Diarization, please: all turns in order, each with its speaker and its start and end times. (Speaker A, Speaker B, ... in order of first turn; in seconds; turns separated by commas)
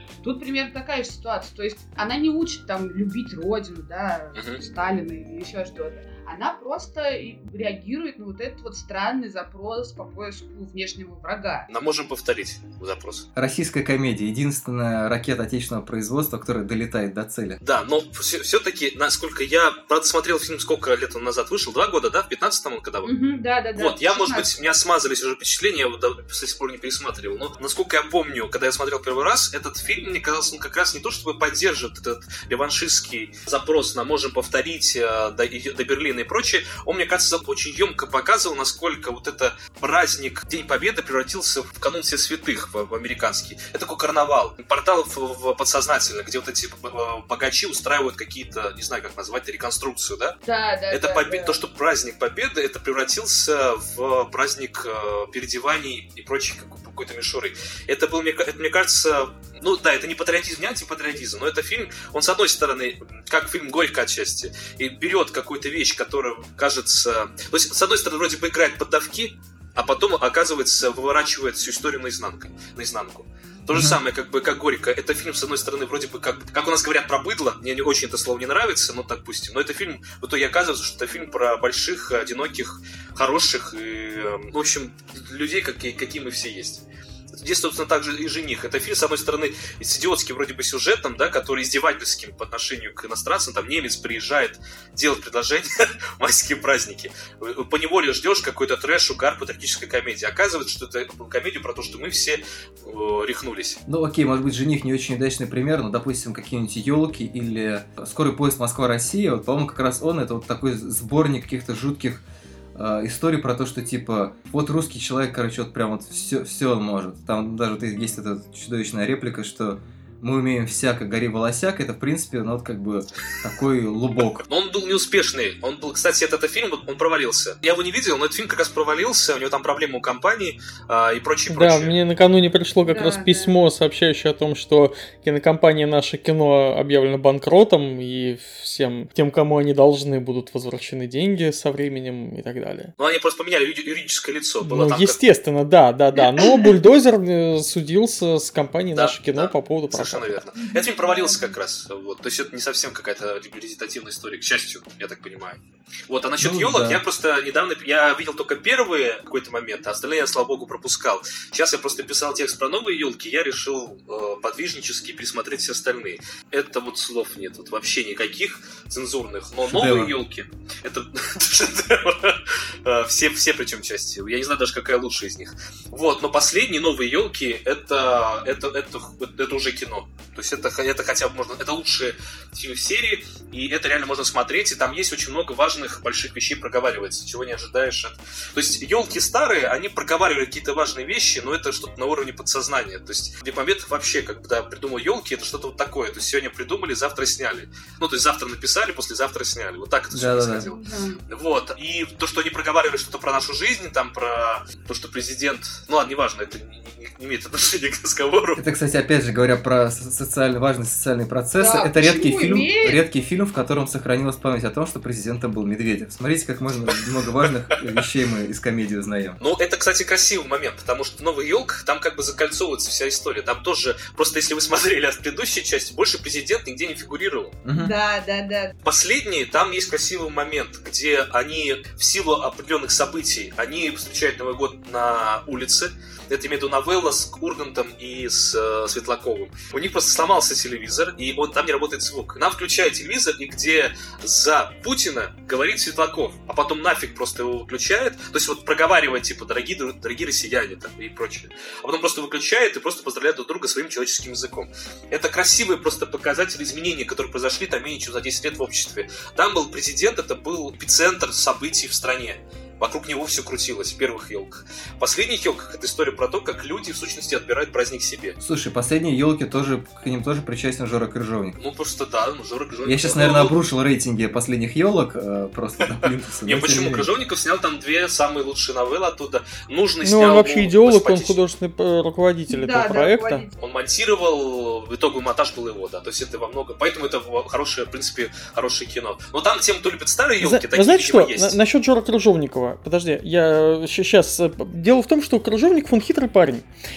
Speaker A: 0.2-11.7, Speaker B: 4.3-4.6, Speaker B: 11.7-13.3, Speaker C: 13.3-17.6, Speaker B: 17.6-23.1, Speaker A: 23.0-24.5, Speaker B: 23.7-50.4, Speaker A: 50.4-51.6, Speaker B: 50.9-103.8, Speaker C: 73.7-74.0, Speaker C: 103.9-112.2, Speaker C: 112.7-124.4, Speaker B: 124.4-131.9, Speaker D: 131.5-142.9, Speaker A: 132.8-133.5, Speaker B: 143.0-145.2, Speaker D: 144.6-150.4, Speaker A: 146.2-146.7, Speaker B: 148.9-208.6, Speaker A: 150.6-151.5, Speaker C: 156.4-157.0, Speaker C: 169.6-170.2, Speaker C: 200.1-200.7, Speaker A: 200.6-201.2, Speaker C: 208.6-219.4, Speaker A: 211.6-213.0, Speaker B: 219.4-227.6, Speaker C: 227.6-227.9, Speaker A: 227.8-228.7, Speaker B: 228.8-268.4, Speaker C: 268.4-271.6, Speaker B: 271.6-273.6, Speaker C: 272.9-277.1, Speaker B: 276.0-281.4, Speaker D: 280.0-283.4, Speaker A: 282.5-283.5, Speaker B: 283.6-291.6, Speaker D: 290.4-296.6